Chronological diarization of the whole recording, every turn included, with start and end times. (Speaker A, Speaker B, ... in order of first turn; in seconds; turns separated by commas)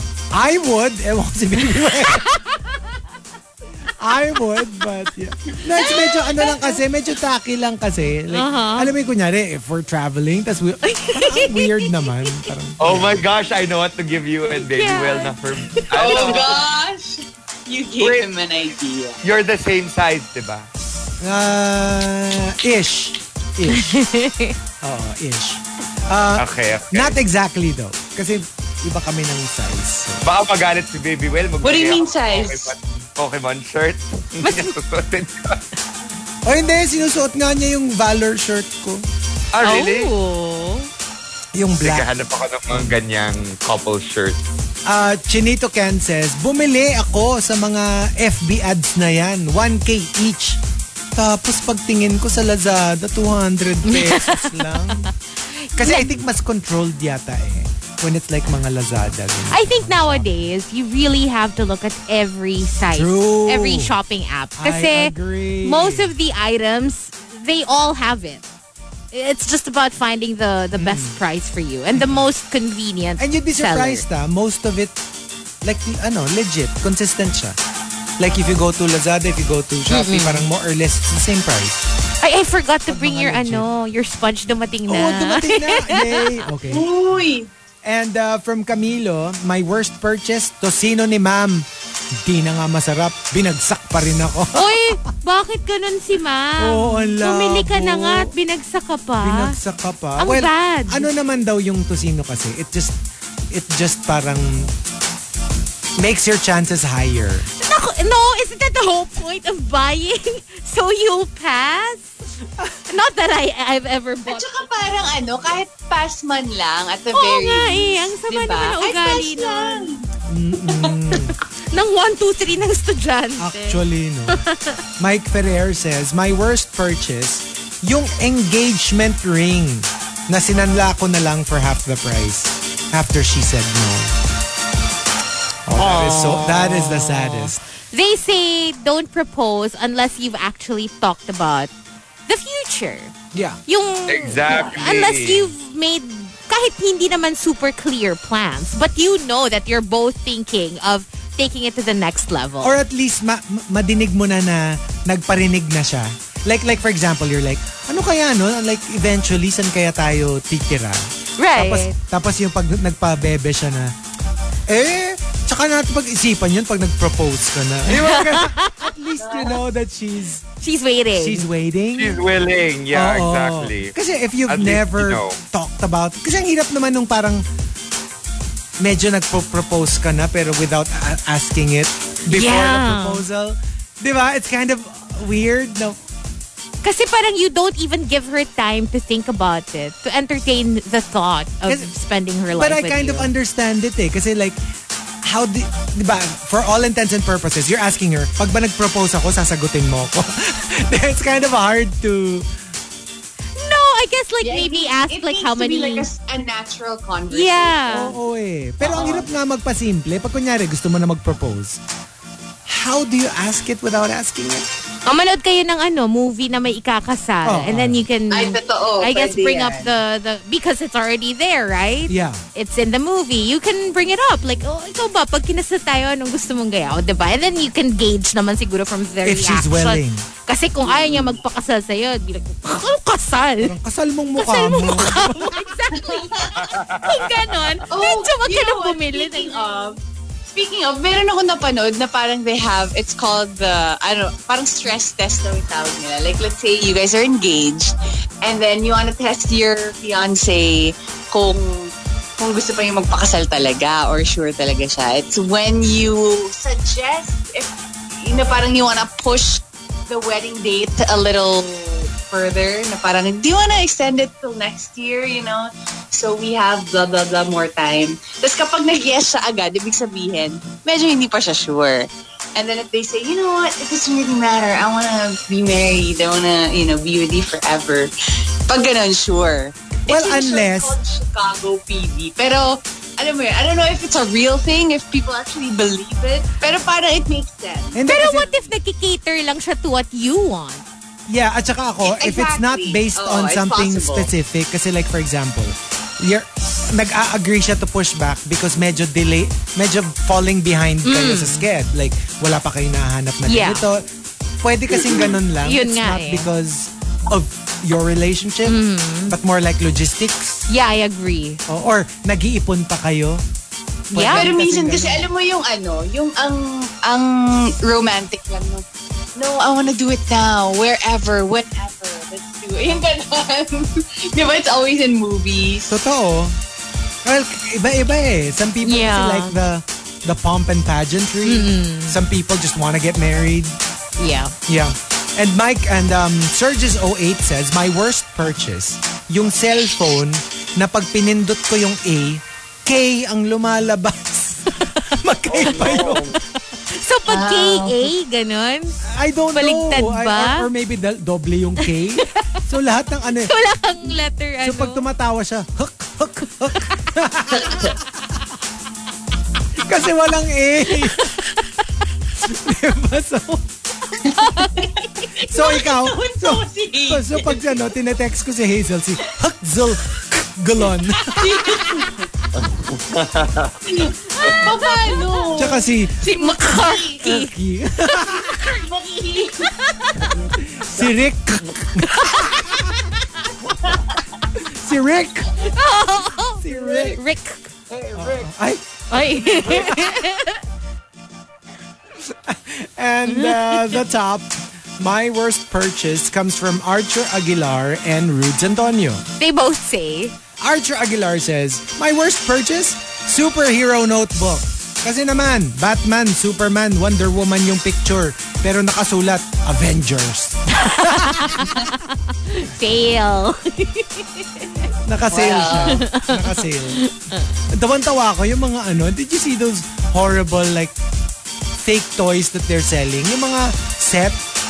Speaker A: 0.3-2.2, Speaker B: 1.9-2.8, Speaker A: 4.0-13.3, Speaker B: 5.7-6.8, Speaker B: 8.3-8.9, Speaker B: 10.9-12.5, Speaker C: 12.8-16.6, Speaker B: 14.5-16.1, Speaker D: 15.9-19.2, Speaker C: 18.0-18.3, Speaker C: 19.2-20.7, Speaker A: 21.2-24.0, Speaker B: 23.7-24.6, Speaker A: 24.8-30.2, Speaker C: 26.4-27.2, Speaker C: 30.2-35.6, Speaker D: 31.6-32.7, Speaker B: 34.4-34.8, Speaker A: 36.5-39.0, Speaker C: 39.5-40.1, Speaker B: 39.6-40.9, Speaker A: 41.5-42.1, Speaker C: 41.8-44.4, Speaker A: 44.9-50.6, Speaker A: 51.1-55.1, Speaker B: 53.9-56.2, Speaker A: 55.8-60.5, Speaker B: 59.5-68.4, Speaker A: 62.9-64.0, Speaker A: 64.6-66.1, Speaker B: 69.1-74.0, Speaker A: 70.8-71.2, Speaker A: 71.9-72.3, Speaker A: 73.2-75.0, Speaker A: 75.6-77.6, Speaker A: 78.2-81.9, Speaker B: 79.9-80.5, Speaker B: 82.2-86.4, Speaker A: 82.9-83.7, Speaker A: 84.9-87.2, Speaker D: 86.7-87.5, Speaker A: 87.8-91.7, Speaker A: 92.2-95.0, Speaker B: 94.5-99.6, Speaker A: 96.6-98.3, Speaker A: 99.2-103.0, Speaker B: 100.2-101.1, Speaker A: 103.5-104.7, Speaker A: 106.0-107.5, Speaker B: 107.6-112.1, Speaker B: 112.9-115.0, Speaker D: 114.3-120.1, Speaker B: 117.1-119.9, Speaker A: 120.3-121.4, Speaker D: 120.6-121.2, Speaker B: 121.6-124.8, Speaker A: 123.4-124.4, Speaker A: 125.0-134.2, Speaker A: 135.7-137.6, Speaker B: 135.8-141.7, Speaker B: 142.3-143.1, Speaker A: 143.3-143.6, Speaker B: 143.7-152.8, Speaker C: 144.1-145.5, Speaker A: 152.6-163.9, Speaker B: 161.4-161.9, Speaker A: 164.7-170.4, Speaker B: 167.9-168.9, Speaker D: 169.2-169.6, Speaker B: 170.6-171.5, Speaker A: 171.1-172.2, Speaker C: 172.0-173.9, Speaker A: 172.9-177.4, Speaker C: 174.5-175.4, Speaker A: 178.8-186.0, Speaker B: 182.3-183.2, Speaker B: 186.8-193.3, Speaker A: 191.7-191.9, Speaker A: 192.5-194.6, Speaker A: 195.2-202.5, Speaker B: 203.6-206.1, Speaker D: 204.4-208.0, Speaker B: 207.3-208.2, Speaker A: 207.9-211.8, Speaker D: 208.8-209.3, Speaker A: 212.7-214.7, Speaker B: 215.1-233.8, Speaker A: 217.4-218.1, Speaker D: 218.3-220.0, Speaker A: 222.1-222.4, Speaker A: 229.2-230.3, Speaker D: 230.8-231.4, Speaker A: 233.6-235.7, Speaker B: 234.4-240.0, Speaker D: 235.9-236.7, Speaker C: 236.6-237.2, Speaker D: 237.9-278.1, Speaker D: 278.7-288.7, Speaker A: 280.1-281.0, Speaker A: 287.9-288.5, Speaker B: 288.1-290.8, Speaker A: 291.3-304.0, Speaker D: 292.1-294.3, Speaker B: 301.1-301.7, Speaker B: 303.4-303.8, Speaker A: 304.6-310.7, Speaker D: 304.9-305.4, Speaker B: 305.6-306.5, Speaker B: 308.6-309.4, Speaker B: 310.7-311.6, Speaker A: 311.7-313.4, Speaker A: 314.1-315.3, Speaker B: 314.1-314.5, Speaker D: 314.3-325.9, Speaker A: 325.9-326.6, Speaker A: 327.2-333.8, Speaker B: 328.8-329.6, Speaker B: 331.4-332.2, Speaker B: 334.2-334.6, Speaker A: 334.7-346.3, Speaker C: 345.5-346.4, Speaker B: 345.8-346.4, Speaker B: 346.9-349.0, Speaker D: 347.3-348.1, Speaker A: 349.0-353.5, Speaker B: 349.5-350.7, Speaker B: 351.8-352.6, Speaker B: 353.4-355.0, Speaker A: 354.6-357.9, Speaker B: 356.7-357.1, Speaker D: 357.5-358.0, Speaker A: 359.8-361.3, Speaker B: 360.9-361.9, Speaker A: 362.4-363.7, Speaker D: 364.2-367.6, Speaker B: 364.2-364.9, Speaker A: 365.5-371.8, Speaker D: 371.4-372.3, Speaker C: 372.6-373.8, Speaker D: 373.9-377.3, Speaker B: 374.3-375.6, Speaker A: 375.6-376.2, Speaker B: 376.4-377.6, Speaker A: 377.2-378.6, Speaker B: 378.4-380.3, Speaker D: 378.6-379.7, Speaker C: 380.4-381.1, Speaker A: 380.6-382.9, Speaker B: 382.0-383.5, Speaker A: 383.6-385.7, Speaker D: 383.9-384.2, Speaker B: 385.6-387.7, Speaker A: 386.6-387.2, Speaker C: 387.9-388.5, Speaker A: 388.1-390.0, Speaker B: 389.1-390.6, Speaker A: 392.2-399.2, Speaker B: 393.3-394.0, Speaker B: 399.4-400.4, Speaker A: 400.6-411.9, Speaker B: 410.8-414.9, Speaker A: 415.1-417.0, Speaker D: 415.3-416.0, Speaker B: 415.7-417.6, Speaker A: 417.7-420.9, Speaker A: 421.8-424.4